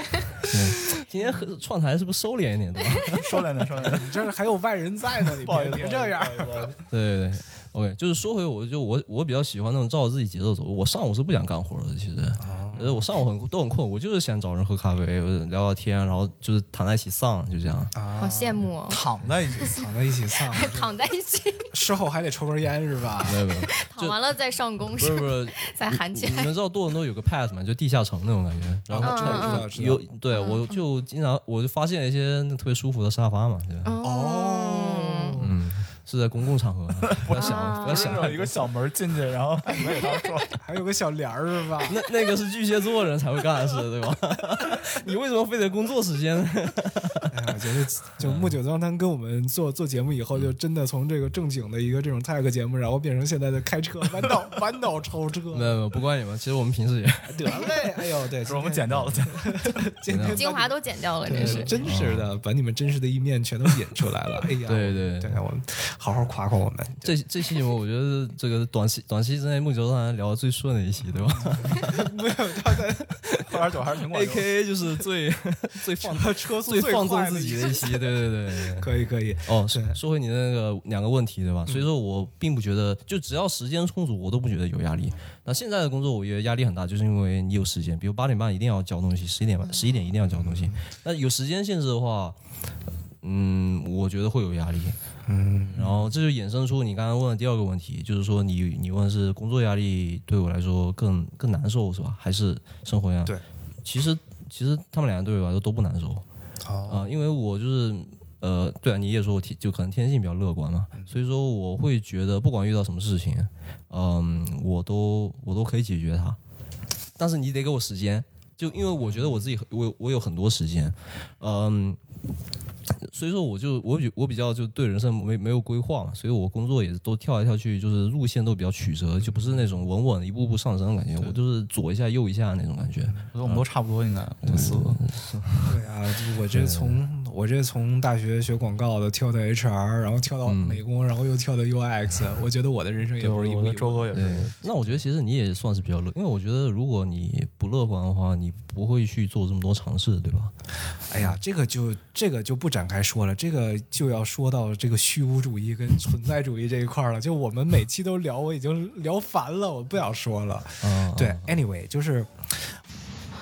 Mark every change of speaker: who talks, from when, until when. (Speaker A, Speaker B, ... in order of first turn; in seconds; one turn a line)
Speaker A: 0.4-3.2
Speaker B: 3.1-4.2
Speaker C: 3.8-6.7
Speaker B: 5.4-6.8
Speaker A: 6.9-17.9
Speaker C: 12.4-13.1
Speaker C: 17.9-18.6
Speaker D: 18.2-19.0
Speaker B: 18.9-19.8
Speaker C: 19.6-20.9
Speaker D: 20.5-21.7
Speaker C: 21.7-23.5
Speaker A: 23.3-24.2
Speaker D: 23.6-26.5
Speaker A: 25.0-33.9
Speaker C: 28.9-30.0
Speaker D: 29.0-29.7
Speaker D: 30.3-30.8
Speaker D: 33.8-35.4
Speaker C: 34.0-35.5
Speaker A: 35.4-38.7
Speaker B: 37.1-40.5
Speaker D: 37.4-38.2
Speaker C: 40.6-42.0
Speaker A: 41.8-47.3
Speaker C: 47.3-55.8
Speaker A: 48.2-48.6
Speaker A: 55.5-57.7
Speaker C: 57.3-67.2
Speaker B: 58.4-59.9
Speaker A: 60.1-60.4
Speaker D: 60.3-61.8
Speaker A: 61.4-62.3
Speaker A: 64.7-65.4
Speaker A: 67.0-72.0
Speaker C: 71.6-73.5
Speaker A: 72.7-73.6
Speaker B: 73.4-74.6
Speaker A: 74.1-78.9
Speaker C: 75.9-80.0
Speaker A: 79.5-92.4
Speaker C: 89.8-90.8
Speaker A: 93.2-95.0
Speaker C: 95.3-96.2
Speaker A: 95.7-106.2
Speaker C: 106.6-107.1
Speaker A: 106.9-116.4
Speaker A: 117.2-122.0
Speaker C: 119.0-119.5
Speaker A: 123.0-133.6
Speaker C: 129.2-129.7
Speaker B: 133.3-135.0
Speaker A: 134.4-135.8
Speaker C: 135.6-144.1
Speaker A: 136.5-137.0
Speaker A: 140.4-140.8
Speaker B: 143.2-145.0
Speaker A: 144.1-150.5
Speaker C: 151.1-162.8
Speaker A: 160.8-161.6